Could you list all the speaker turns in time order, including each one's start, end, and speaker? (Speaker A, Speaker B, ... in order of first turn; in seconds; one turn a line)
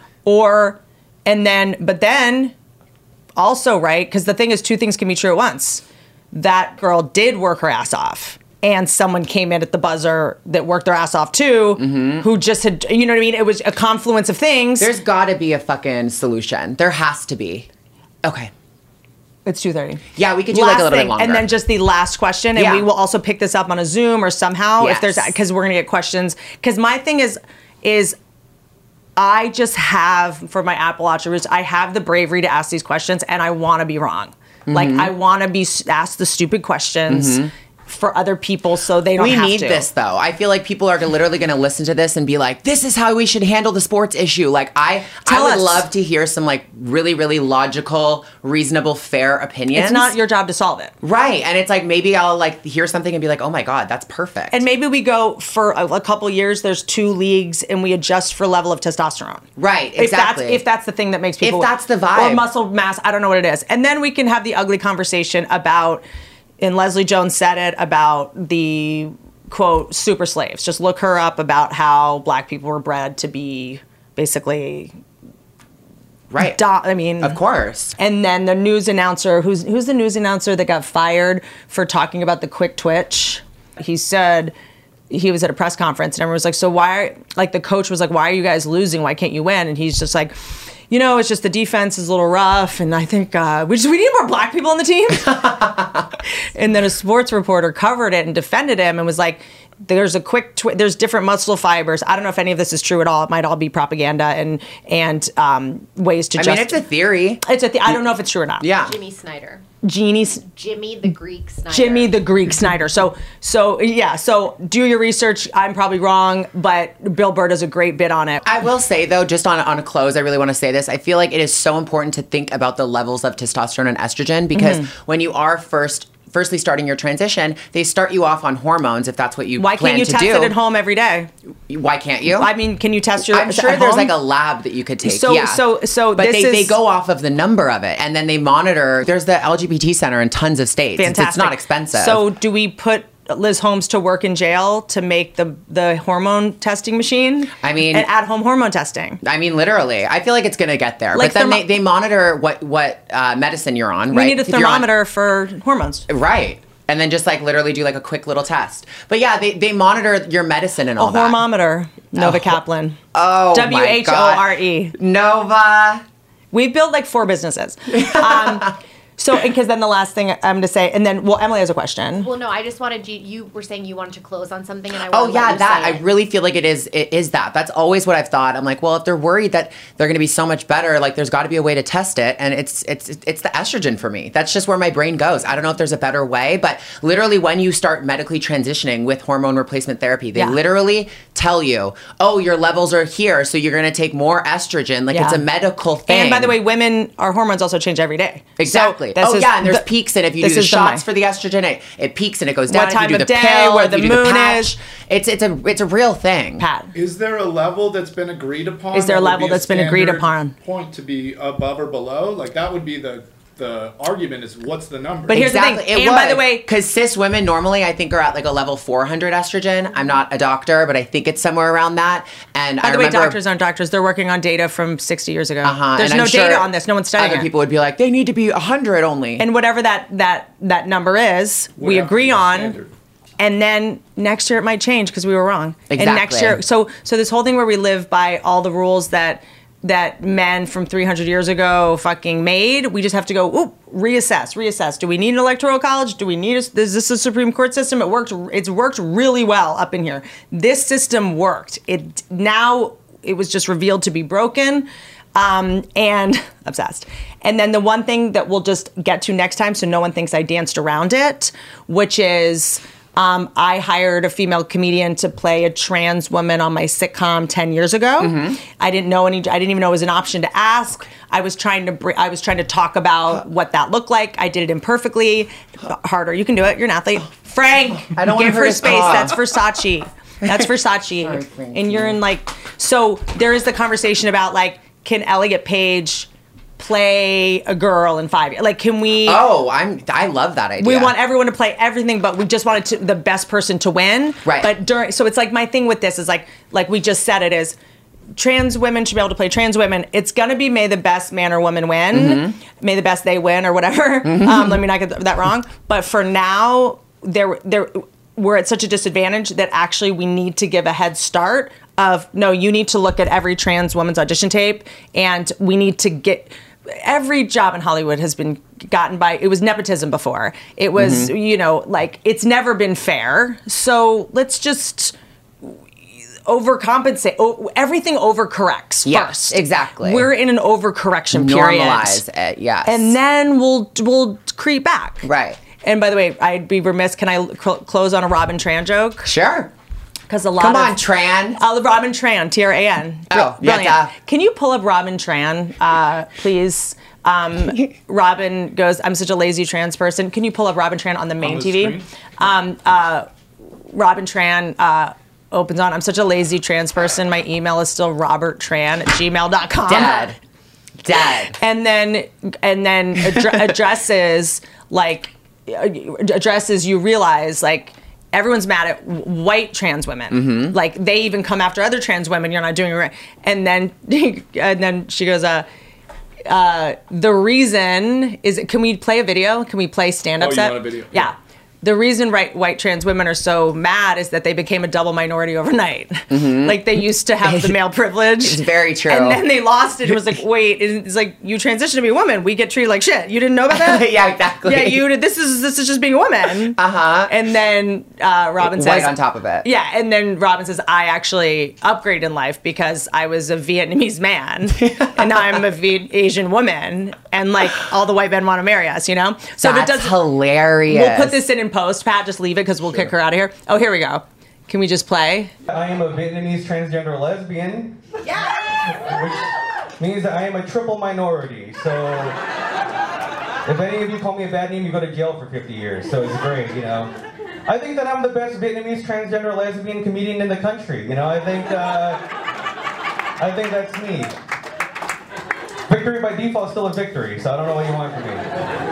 Speaker A: 0.2-2.5
Speaker A: 3.4-14.9
Speaker B: 11.8-12.3
Speaker B: 14.8-17.7
Speaker B: 18.2-18.5
Speaker A: 19.4-28.2
Speaker B: 20.1-21.5
Speaker B: 22.5-22.9
Speaker B: 24.8-25.3
Speaker A: 29.2-39.9
Speaker B: 34.7-35.1
Speaker B: 37.1-37.5
Speaker B: 39.2-50.1
Speaker A: 45.2-45.9
Speaker A: 49.7-50.9
Speaker B: 51.0-54.6
Speaker A: 54.5-66.0
Speaker B: 59.6-60.6
Speaker B: 61.4-62.5
Speaker A: 66.6-74.9
Speaker B: 76.3-76.6
Speaker A: 76.4-77.4
Speaker B: 77.2-78.0
Speaker A: 78.0-84.5
Speaker A: 85.1-90.3
Speaker A: 90.9-95.6
Speaker B: 95.3-96.0
Speaker A: 96.5-106.8
Speaker B: 106.3-108.0
Speaker A: 107.4-108.7
Speaker B: 108.6-108.9
Speaker C: 108.8-109.6
Speaker A: 109.8-110.5
Speaker C: 110.5-112.2
Speaker A: 111.7-118.4
Speaker B: 118.4-130.6
Speaker A: 124.5-124.9
Speaker A: 129.6-131.3
Speaker B: 131.7-132.5
Speaker A: 132.3-134.1
Speaker B: 133.3-142.2
Speaker A: 135.0-136.8
Speaker A: 141.0-149.2
Speaker B: 147.6-148.1
Speaker B: 149.2-154.9
Speaker A: 151.1-151.7
Speaker A: 154.1-156.1
Speaker B: 156.1-161.4
Speaker A: 161.0-163.0
Speaker B: 162.2-162.6
Speaker B: 163.1-166.0
Speaker A: 163.5-164.9
Speaker A: 166.5-172.3
Speaker B: 167.9-168.7
Speaker C: 172.2-176.0
Speaker B: 175.0-196.6
Speaker A: 195.1-195.4
Speaker A: 196.1-199.8
Speaker B: 198.6-206.7
Speaker A: 200.4-201.0
Speaker A: 202.7-204.7
Speaker A: 206.6-206.9
Speaker D: 206.9-215.4
Speaker A: 208.9-210.5
Speaker A: 215.3-216.7
Speaker B: 215.3-223.4
Speaker A: 222.8-227.5
Speaker B: 225.6-229.5
Speaker A: 229.4-232.8
Speaker D: 231.8-232.9
Speaker A: 233.4-289.4
Speaker B: 235.9-236.6
Speaker B: 268.2-268.6
Speaker B: 278.0-279.4
Speaker B: 281.2-282.2
Speaker B: 289.2-291.1
Speaker A: 290.8-297.8
Speaker B: 294.4-294.7
Speaker A: 298.3-325.8
Speaker B: 302.1-302.5
Speaker B: 304.2-304.8
Speaker B: 320.9-321.3
Speaker A: 326.4-332.2
Speaker B: 329.1-330.3
Speaker B: 331.3-333.1
Speaker A: 332.9-335.3
Speaker B: 335.2-335.6
Speaker A: 335.8-339.3
Speaker B: 339.2-339.7
Speaker A: 340.3-341.0
Speaker B: 340.6-341.6
Speaker A: 341.6-353.3
Speaker B: 343.3-344.1
Speaker D: 351.4-352.1
Speaker A: 353.9-360.2
Speaker B: 359.9-360.4
Speaker B: 361.0-361.6
Speaker A: 361.6-375.7
Speaker B: 370.3-370.8
Speaker A: 376.5-394.1
Speaker D: 380.4-381.3
Speaker B: 386.3-387.8
Speaker B: 388.4-389.4
Speaker B: 393.7-395.0
Speaker A: 394.6-410.2
Speaker B: 396.7-397.3
Speaker B: 398.6-399.7
Speaker B: 404.8-405.4
Speaker B: 409.6-411.4
Speaker A: 410.9-415.5
Speaker E: 415.7-418.0
Speaker E: 418.8-422.4
Speaker E: 423.6-427.1
Speaker E: 427.7-432.2
Speaker E: 433.4-434.3
Speaker E: 435.9-438.4